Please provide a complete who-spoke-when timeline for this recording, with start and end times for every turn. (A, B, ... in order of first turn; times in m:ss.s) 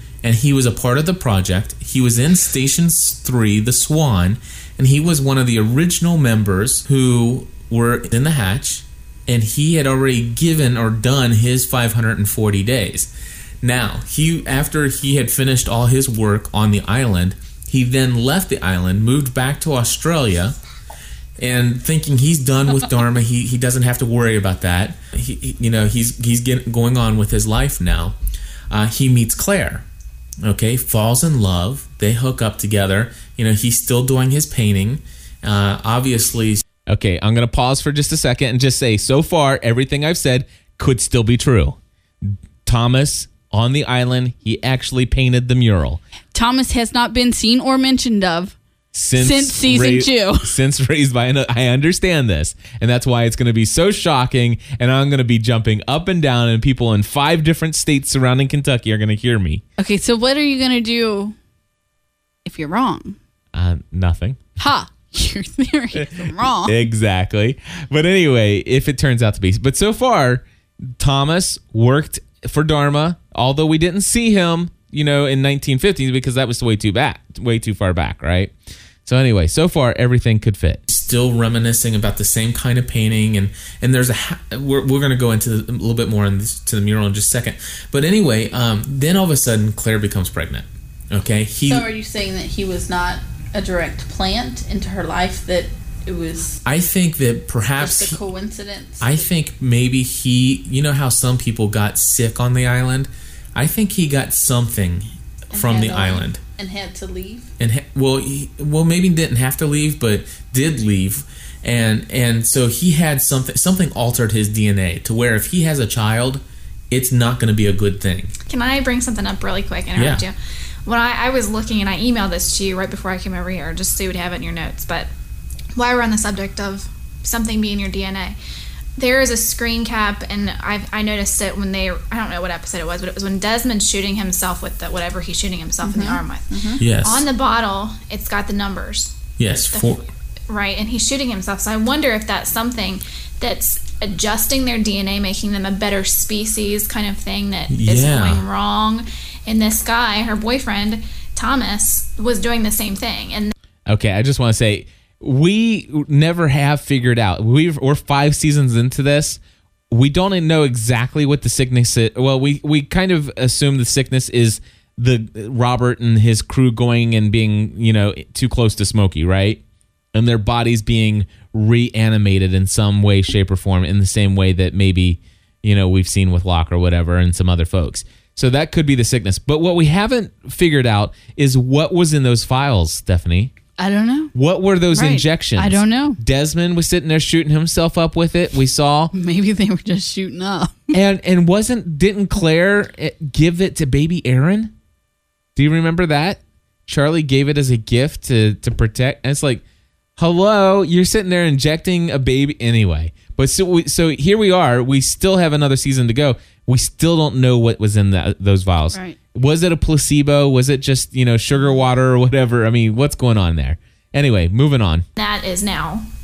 0:00.2-0:13.1 A
0:13.6-0:20.5 A
0:21.4-0:28.2 A
0:28.7-0:29.8 A
0:30.4-0:36.6 A
0:36.9-0:46.0 B
0:46.3-0:48.6 C
0:48.9-0:59.6 B
0:49.2-0:50.5 C
0:59.8-1:01.4 C
1:02.4-1:03.2 C
1:03.5-1:04.4 B
1:04.6-1:06.7 C
1:06.0-1:10.4 B
1:11.0-1:18.5 B
1:19.0-1:20.8 B
1:20.9-1:31.9 A
1:31.7-1:36.6 D
1:36.6-1:38.2 A
1:37.8-1:38.1 D
1:38.1-1:39.0 C
1:39.0-1:46.4 A
1:45.6-1:46.1 D
1:45.7-1:47.4 C
1:47.6-1:58.3 A
1:58.5-2:00.3 E
1:59.9-2:00.2 A
2:00.8-2:05.1 E
2:05.8-2:08.4 E
2:09.0-2:19.2 E
2:15.8-2:16.8 D
2:16.8-2:17.2 A
2:19.4-2:20.0 A
2:20.5-2:33.5 E
2:27.7-2:28.4 A
2:33.9-2:39.4 B
2:39.9-2:49.6 B
2:50.1-3:03.5 B
3:03.8-3:04.3 C
3:04.3-3:09.1 B
3:04.9-3:06.2 C
3:09.1-3:10.9 C
3:10.9-3:14.7 B
3:15.6-3:19.6 B
3:20.2-3:35.0 B
3:28.9-3:29.2 C
3:35.2-3:36.1 E